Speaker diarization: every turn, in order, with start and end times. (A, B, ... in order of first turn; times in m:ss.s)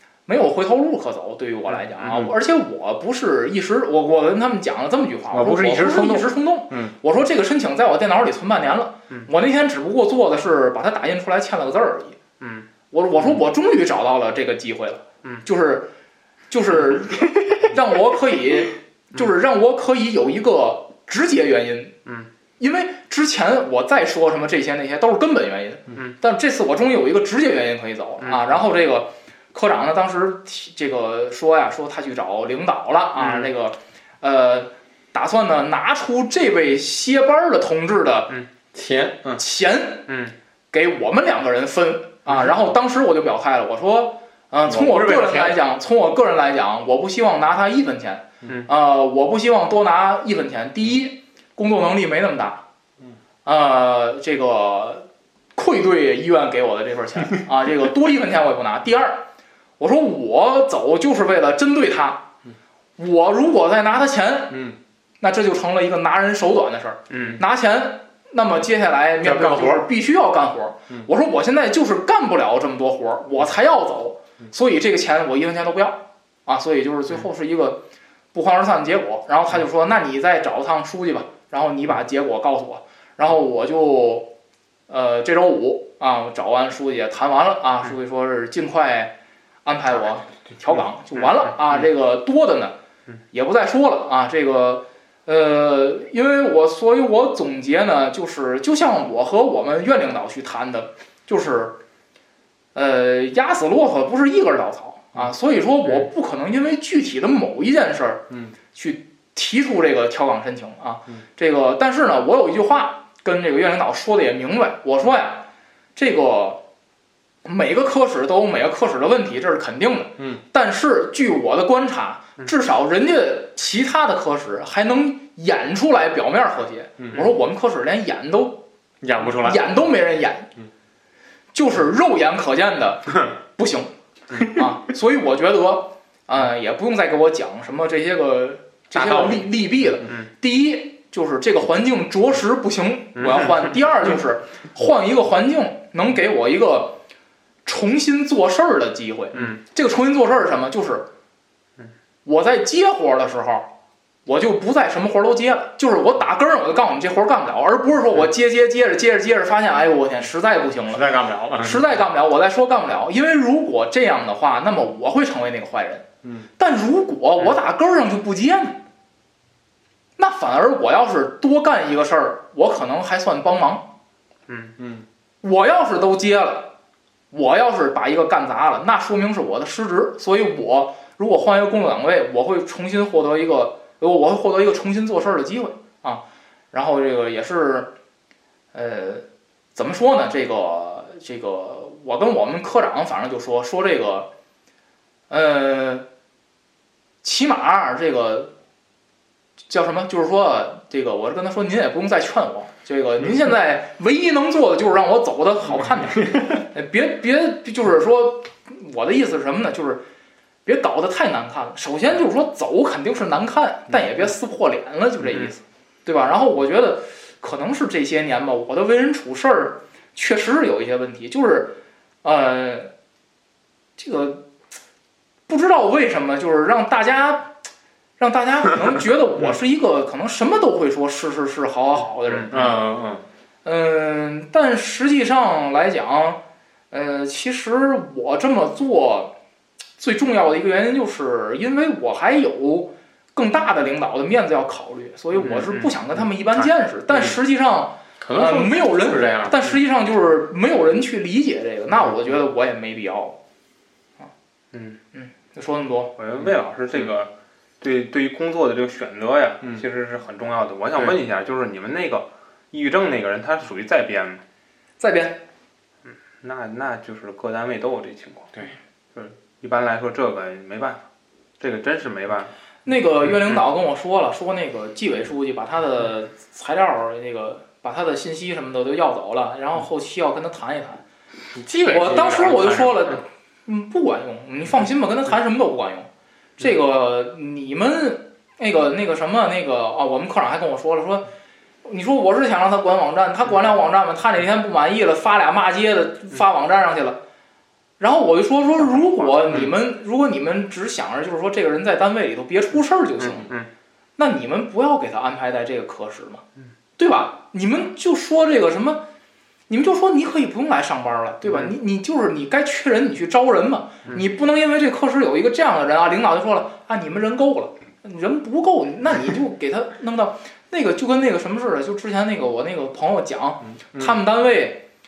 0:00.3-0:12.2 A
0:02.1-0:02.3 B
0:05.3-0:06.9 B
0:12.4-0:12.7 C
0:12.9-0:15.9 A
0:16.5-0:22.0 A
0:22.6-0:38.3 A
0:28.2-0:28.6 C
0:33.2-0:33.5 C
0:38.7-0:39.4 B
0:39.4-0:40.1 A
0:40.1-0:40.3 C
0:40.7-0:52.6 A
0:44.6-0:45.6 B
0:53.4-0:59.2 A
0:59.8-1:02.3 A
1:03.0-1:04.7 A
1:04.5-1:04.8 B
1:05.2-1:17.8 A
1:07.1-1:07.4 C
1:09.2-1:09.9 B
1:18.3-1:24.3 A
1:24.9-1:32.7 A
1:33.3-1:41.8 A
1:42.7-1:56.6 A
1:57.4-2:08.6 A
2:09.0-2:09.8 B
2:09.2-2:10.5 A
2:11.5-2:27.0 A
2:18.9-2:19.5 B
2:23.2-2:23.7 C
2:27.6-2:31.1 A
2:32.2-2:33.7 A
2:34.2-2:41.0 A
2:40.9-2:41.9 B
2:41.6-2:46.0 A
2:46.6-2:48.8 A
2:50.2-2:53.9 A
2:54.5-2:54.7 C
2:54.8-2:55.0 B
2:55.4-2:56.7 A
2:57.3-3:07.9 A
3:08.7-3:14.3 A
3:15.3-3:16.1 A
3:17.2-3:18.5 A
3:19.7-3:30.0 A
3:30.6-3:42.9 A
3:44.0-3:44.5 A
3:45.5-3:47.5 A
3:48.2-3:52.8 A
3:52.3-3:52.6 C
3:52.5-3:53.2 B
3:53.6-3:59.3 A
4:00.0-4:13.4 A
4:05.4-4:05.9 C
4:08.2-4:09.6 B
4:14.7-4:15.0 C
4:15.1-4:16.1 A
4:16.2-4:24.4 C
4:25.0-4:25.4 A
4:26.4-4:28.6 C
4:29.1-4:31.0 C
4:31.6-4:32.5 C
4:32.8-4:41.0 A
4:41.5-4:43.1 B
4:41.8-4:51.3 A
4:51.8-4:57.2 A
4:58.0-5:03.5 A
4:58.9-4:59.7 C
5:03.2-5:03.7 C
5:04.2-5:06.4 A
5:07.0-5:09.0 A
5:09.7-5:24.8 A